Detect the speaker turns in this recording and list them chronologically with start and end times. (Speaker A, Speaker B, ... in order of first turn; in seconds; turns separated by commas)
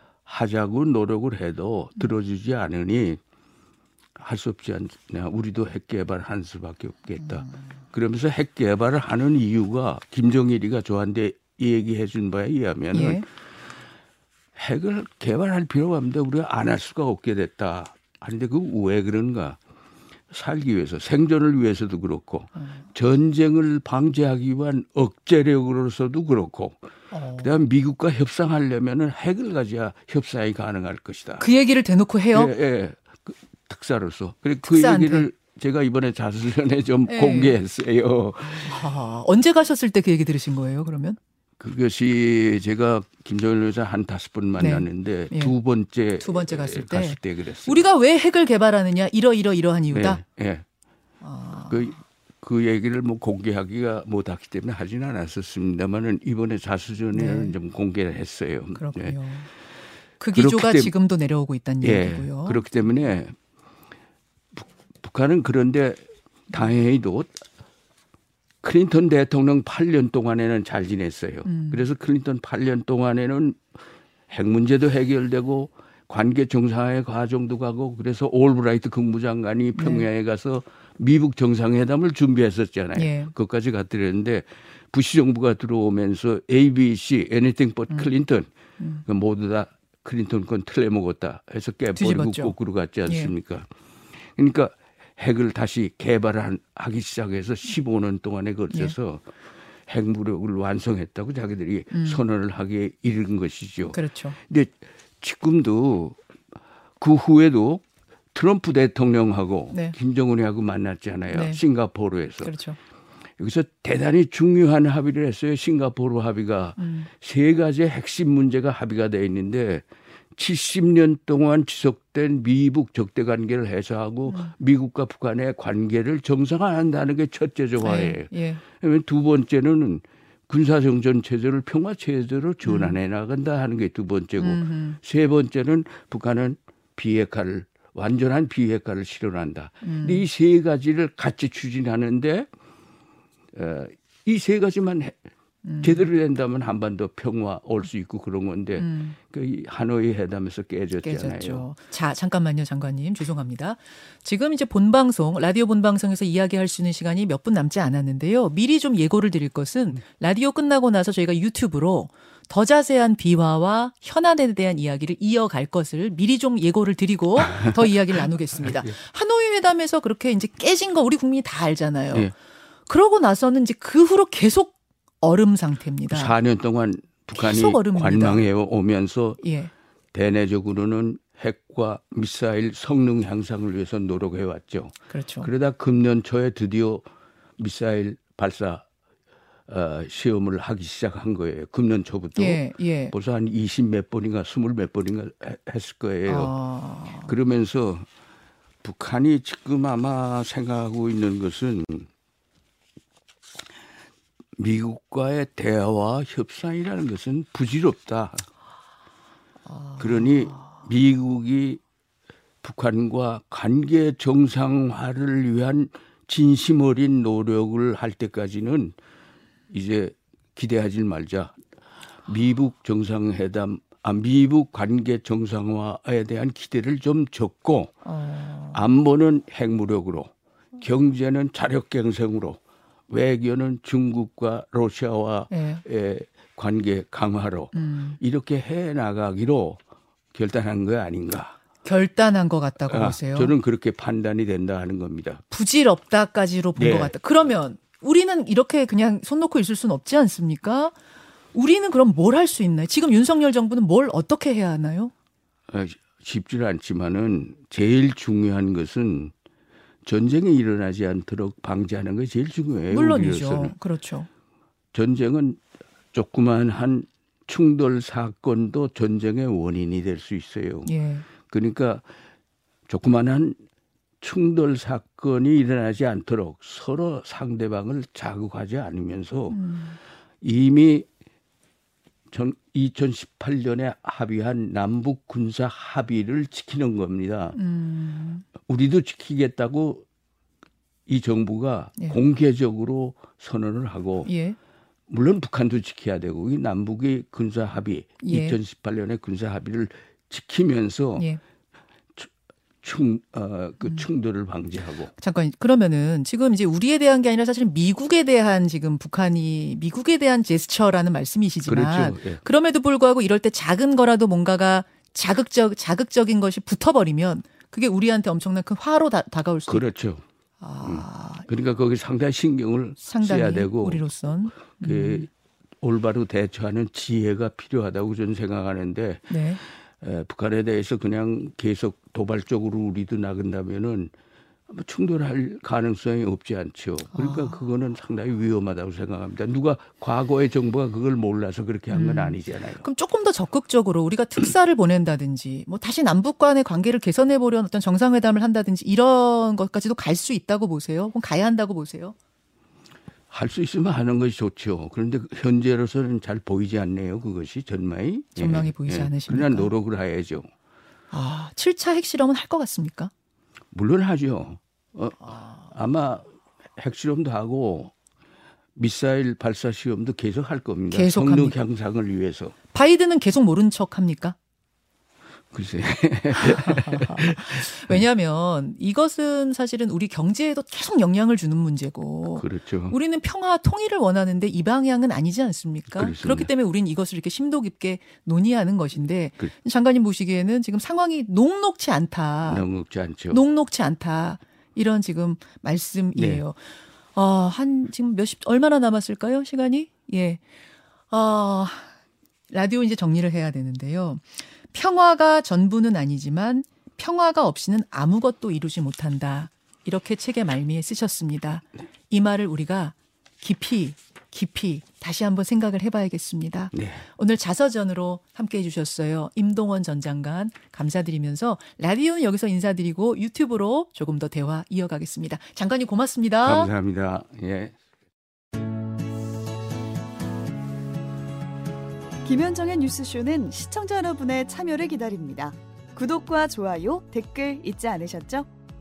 Speaker A: 0.2-3.2, Speaker A: 4.2-13.2, Speaker B: 12.9-13.2, Speaker A: 14.6-19.6, Speaker A: 20.3-26.8, Speaker B: 27.1-27.6, Speaker A: 27.4-31.5, Speaker B: 31.4-32.5, Speaker A: 32.3-38.9, Speaker B: 34.6-35.3, Speaker B: 37.1-37.6, Speaker B: 38.6-41.2, Speaker A: 41.6-47.9, Speaker B: 44.6-45.5, Speaker B: 46.2-50.2, Speaker A: 49.9-50.6, Speaker B: 51.2-52.0, Speaker A: 51.7-59.1, Speaker B: 57.1-57.5, Speaker B: 58.7-59.5, Speaker B: 60.2-62.6, Speaker A: 60.3-60.9, Speaker A: 61.8-63.3, Speaker A: 64.5-67.4, Speaker A: 68.6-73.6, Speaker B: 71.4-71.9, Speaker A: 74.3-88.5, Speaker B: 79.7-80.1, Speaker B: 82.9-83.3, Speaker B: 88.8-89.0, Speaker A: 89.0-93.7, Speaker B: 91.9-92.5, Speaker B: 93.0-93.3, Speaker A: 94.2-99.3, Speaker A: 99.9-106.2, Speaker B: 101.9-102.2, Speaker B: 103.9-104.4, Speaker A: 107.0-112.5, Speaker B: 111.3-111.6, Speaker B: 112.4-112.8, Speaker A: 113.4-119.8, Speaker B: 116.8-117.1, Speaker A: 120.3-142.5, Speaker B: 124.3-124.5, Speaker B: 127.8-128.6, Speaker B: 132.6-133.0, Speaker B: 134.4-135.0, Speaker B: 139.8-140.2, Speaker A: 143.5-145.2, Speaker B: 145.6-146.0, Speaker A: 145.8-151.7, Speaker B: 148.8-149.2, Speaker B: 151.0-172.3, Speaker B: 172.9-176.3, Speaker A: 176.1-179.4, Speaker B: 177.4-178.5, Speaker B: 179.4-179.7, Speaker A: 180.1-188.8, Speaker B: 185.1-185.5, Speaker A: 189.7-196.5, Speaker B: 192.3-193.1, Speaker B: 196.2-197.3, Speaker A: 197.2-198.1, Speaker A: 198.8-202.1, Speaker A: 204.6-208.5, Speaker B: 209.7-210.8, Speaker A: 210.0-211.8, Speaker A: 212.6-218.9, Speaker A: 219.7-221.6, Speaker A: 222.2-228.0, Speaker B: 228.0-228.8, Speaker A: 228.7-239.8, Speaker B: 235.5-235.8, Speaker B: 237.7-238.2, Speaker A: 240.3-241.6, Speaker B: 241.8-243.5, Speaker A: 242.9-245.4, Speaker B: 245.5-250.9, Speaker A: 246.8-247.1, Speaker B: 251.5-255.1, Speaker A: 255.7-259.3, Speaker A: 260.0-263.7, Speaker B: 262.9-264.3, Speaker A: 264.9-265.6, Speaker A: 266.1-270.9, Speaker B: 270.8-271.3, Speaker A: 271.5-272.0, Speaker A: 272.9-273.6, Speaker A: 274.2-279.6, Speaker B: 279.5-280.0, Speaker A: 280.4-281.1, Speaker A: 282.3-287.6, Speaker B: 287.5-288.5, Speaker A: 288.6-290.0, Speaker A: 291.1-294.3, Speaker B: 294.2-294.6, Speaker A: 295.1-301.3, Speaker B: 298.2-298.6, Speaker A: 302.8-305.1, Speaker B: 305.2-319.8, Speaker A: 311.6-312.4, Speaker A: 319.7-320.2, Speaker B: 320.6-321.5, Speaker A: 320.8-324.0, Speaker B: 323.0-325.3, Speaker A: 324.6-325.3, Speaker A: 325.8-334.1, Speaker B: 329.3-329.6, Speaker A: 334.7-342.8, Speaker B: 337.1-337.6, Speaker B: 341.9-352.1, Speaker A: 353.3-360.4, Speaker B: 358.4-359.7, Speaker B: 361.1-363.1, Speaker A: 363.7-367.9, Speaker A: 368.8-372.5, Speaker B: 370.9-371.6, Speaker B: 372.7-374.4, Speaker A: 375.5-378.0, Speaker B: 376.4-392.6, Speaker A: 382.3-383.0, Speaker A: 385.9-386.5, Speaker A: 392.4-393.4, Speaker B: 393.3-396.6, Speaker A: 396.1-396.4, Speaker B: 397.1-400.4, Speaker B: 401.1-401.9, Speaker B: 402.5-426.7, Speaker A: 416.7-417.1, Speaker A: 426.4-427.7, Speaker C: 432.2-438.5